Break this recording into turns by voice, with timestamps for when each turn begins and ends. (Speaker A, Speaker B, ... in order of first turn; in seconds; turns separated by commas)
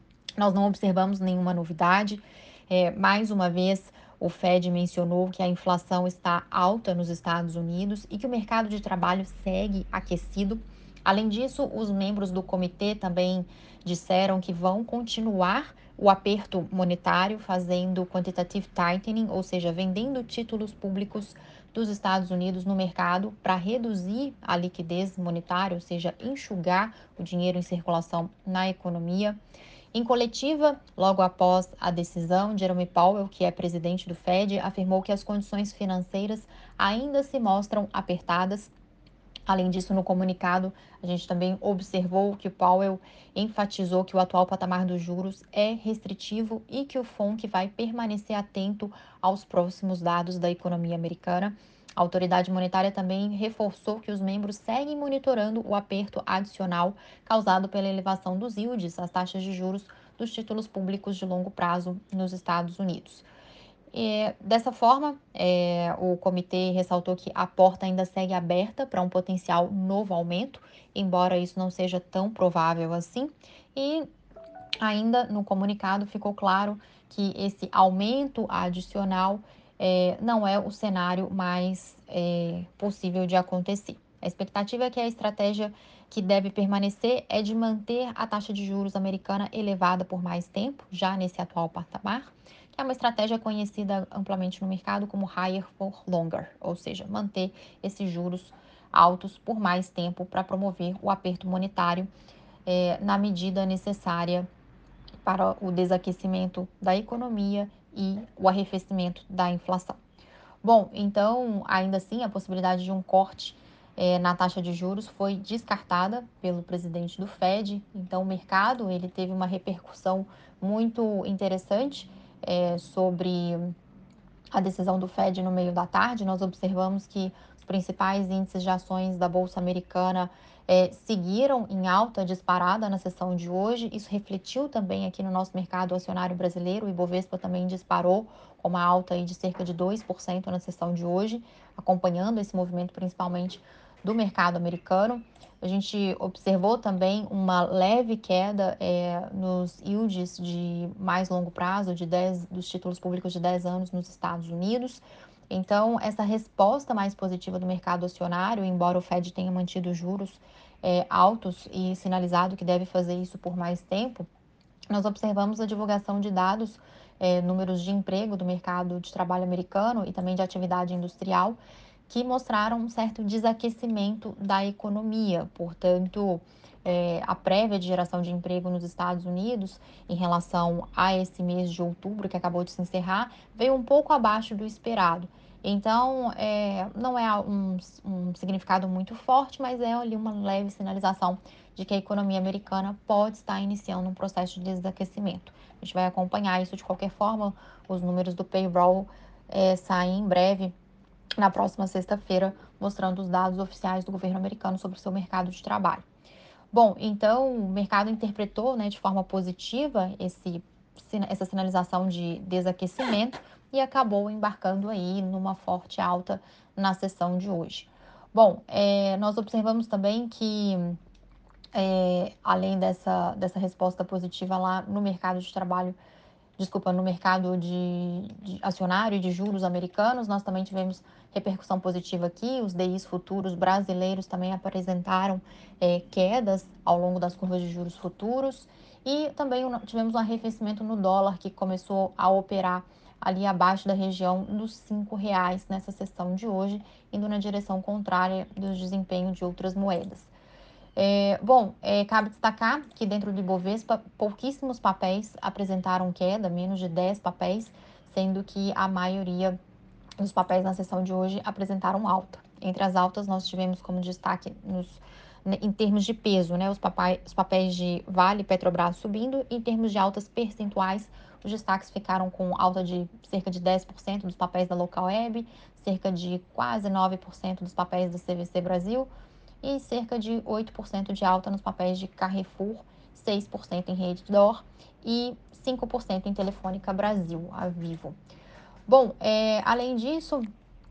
Speaker A: 0.4-29.4, Speaker A: 29.9-38.7, Speaker A: 39.5-63.3, Speaker A: 63.9-74.1, Speaker A: 74.8-102.1, Speaker A: 102.7-104.5, Speaker A: 105.2-110.0, Speaker A: 110.6-123.7, Speaker A: 124.5-164.3, Speaker A: 164.9-200.7, Speaker A: 201.4-206.0, Speaker A: 206.7-221.0, Speaker A: 221.7-226.0, Speaker A: 226.6-250.3, Speaker A: 251.0-259.6, Speaker A: 260.2-279.1, Speaker A: 279.6-288.2, Speaker A: 288.9-290.5